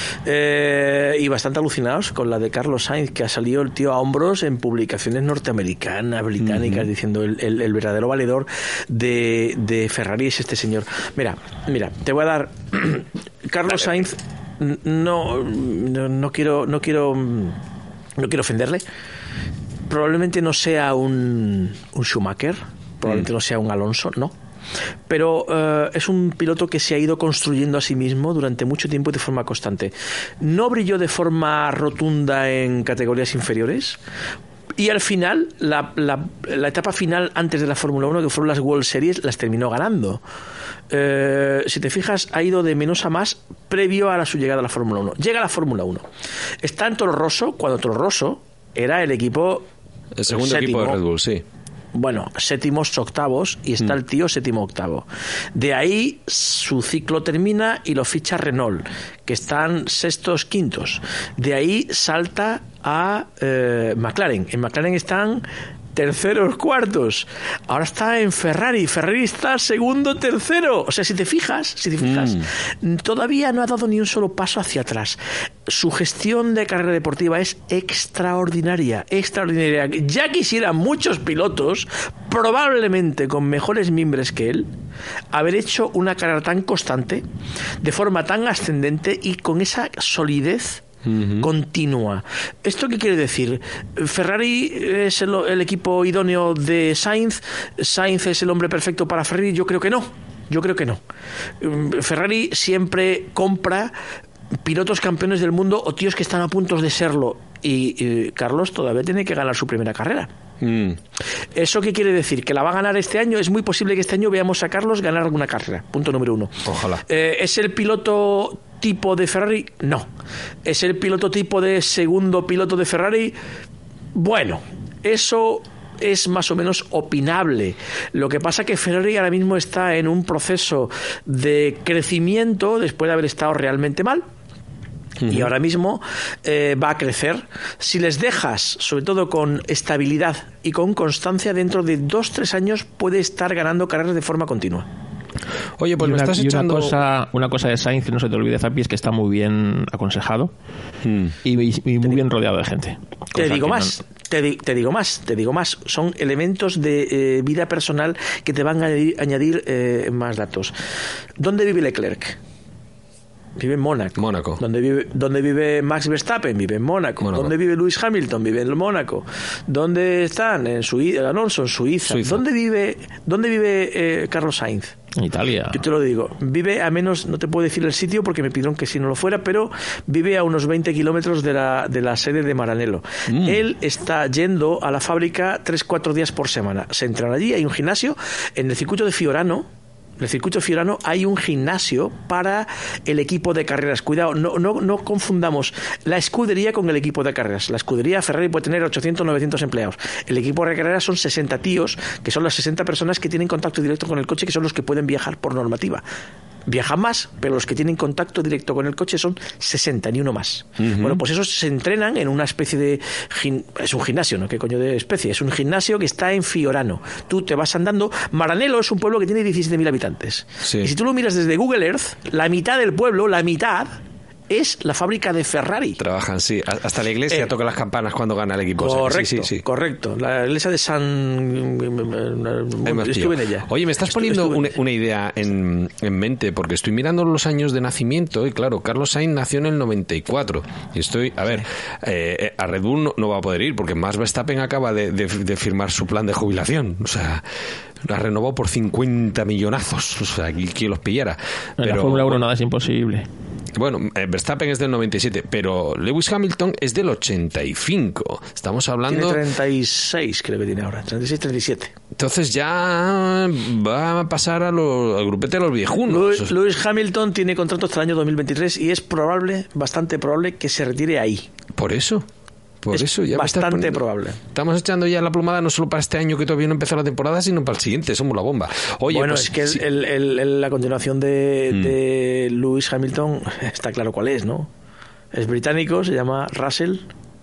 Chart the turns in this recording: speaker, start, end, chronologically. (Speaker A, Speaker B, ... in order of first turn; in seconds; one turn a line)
Speaker A: 0.2-17.6
Speaker B: 6.5-6.8
Speaker A: 18.2-18.8
Speaker A: 19.9-24.3
Speaker A: 25.1-34.0
Speaker A: 34.8-40.2
Speaker A: 40.9-46.0
Speaker A: 46.6-49.7
Speaker B: 50.1-51.4
Speaker A: 50.3-51.0
Speaker A: 51.9-84.7
Speaker B: 72.0-72.4
Speaker A: 85.3-87.2
Speaker A: 87.8-90.8
Speaker B: 91.0-91.5
Speaker A: 91.4-101.0
Speaker A: 101.6-103.9
Speaker A: 104.6-110.3
Speaker B: 110.6-111.0
Speaker A: 111.5-120.1
Speaker B: 116.6-117.0
Speaker A: 120.6-123.3
Speaker A: 124.1-134.2
Speaker B: 135.2-135.5
Speaker A: 135.2-144.9
Speaker B: 145.8-147.0
Speaker C: 146.0-150.5
Speaker B: 151.0-151.3
Speaker C: 151.4-153.9
Speaker A: 153.3-160.7
Speaker A: 161.4-162.4
Speaker A: 163.6-174.9
Speaker B: 164.2-164.6
Speaker B: 167.2-167.5
Speaker B: 172.1-172.4
Speaker C: 175.2-175.8
Speaker A: 175.7-189.7
Speaker B: 183.3-183.6
Speaker A: 190.2-206.0
Speaker A: 206.7-226.0
Speaker B: 210.8-211.2
Speaker B: 220.6-220.9
Speaker B: 226.0-229.6
Speaker A: 228.8-234.6
Speaker B: 232.8-247.4
Speaker B: 248.0-252.4
Speaker C: 251.8-253.3
Speaker B: 253.8-259.4
Speaker A: 259.1-261.9
Speaker B: 262.1-266.5
Speaker A: 266.1-271.5
Speaker B: 271.7-272.2
Speaker B: 272.8-279.8
Speaker A: 272.9-274.4
Speaker A: 279.1-284.7
Speaker A: 285.3-287.1